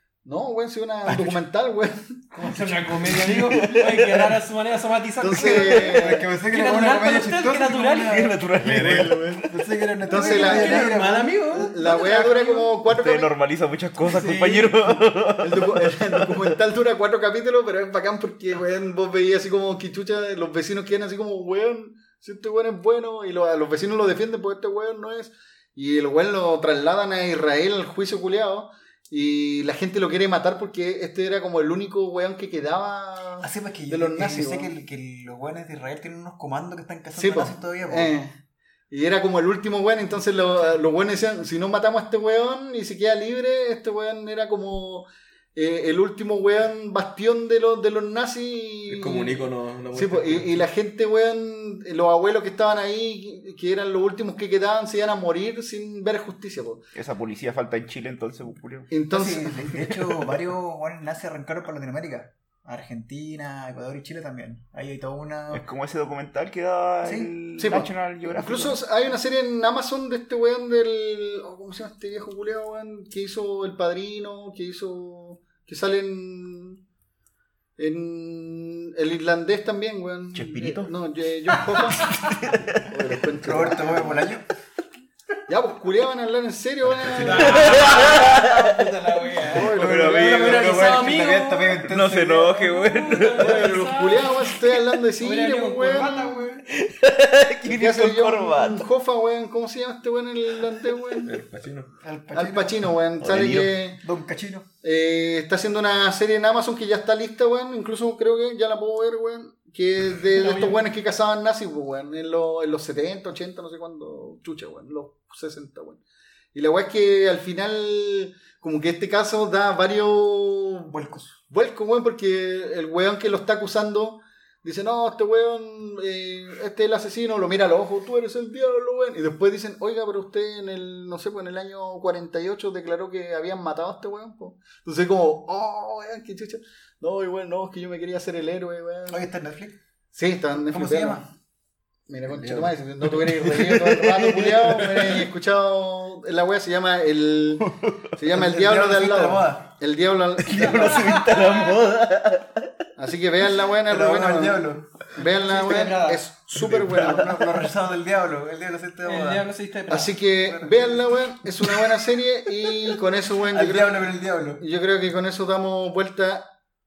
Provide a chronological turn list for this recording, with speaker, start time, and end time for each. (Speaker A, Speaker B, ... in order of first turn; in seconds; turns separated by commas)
Speaker A: 0.2-2.5, Speaker B: 1.1-1.4, Speaker C: 2.3-8.3, Speaker D: 3.5-4.3, Speaker A: 5.2-6.3, Speaker B: 5.3-11.7, Speaker D: 5.5-6.0, Speaker D: 8.1-9.5, Speaker E: 8.6-9.2, Speaker A: 8.7-9.4, Speaker A: 10.1-11.0, Speaker C: 10.1-12.7, Speaker A: 11.6-13.3, Speaker D: 12.8-16.5, Speaker B: 14.0-14.9, Speaker A: 15.4-34.7, Speaker B: 33.4-38.1, Speaker A: 37.2-38.4, Speaker A: 38.9-56.8, Speaker E: 48.9-50.6, Speaker D: 57.0-58.9, Speaker A: 58.9-59.5, Speaker B: 59.1-65.6, Speaker D: 65.5-68.8, Speaker B: 67.0-67.9, Speaker A: 67.6-76.8, Speaker A: 77.8-82.2, Speaker D: 80.3-80.9, Speaker C: 82.0-82.2, Speaker D: 82.0-82.9, Speaker A: 82.8-84.2, Speaker B: 83.4-84.4, Speaker A: 85.5-87.7, Speaker E: 87.0-88.0, Speaker C: 87.2-91.8, Speaker D: 87.4-88.9, Speaker A: 89.5-90.6, Speaker B: 89.5-92.8, Speaker D: 89.7-91.0, Speaker D: 91.8-93.7, Speaker C: 92.6-96.7, Speaker B: 93.4-93.7, Speaker A: 93.4-96.5, Speaker D: 96.7-98.9, Speaker A: 97.7-101.3, Speaker E: 101.2-101.9, Speaker B: 102.0-102.8, Speaker A: 102.3-104.0, Speaker D: 103.2-103.7, Speaker B: 104.0-104.7, Speaker A: 104.8-116.0, Speaker C: 110.4-110.8, Speaker A: 116.5-120.9, Speaker B: 120.9-121.4, Speaker A: 121.5-139.2, Speaker B: 139.1-139.8, Speaker A: 140.1-141.3, Speaker B: 140.7-141.2, Speaker A: 142.1-147.7, Speaker E: 142.4-142.7, Speaker D: 143.6-145.1, Speaker D: 147.6-148.2, Speaker A: 148.2-151.4, Speaker B: 148.3-149.7, Speaker B: 150.5-151.4, Speaker D: 150.5-152.9, Speaker A: 153.0-157.6, Speaker B: 153.7-161.7, Speaker E: 156.6-157.0, Speaker C: 159.1-160.1, Speaker A: 159.9-166.4, Speaker B: 163.5-164.6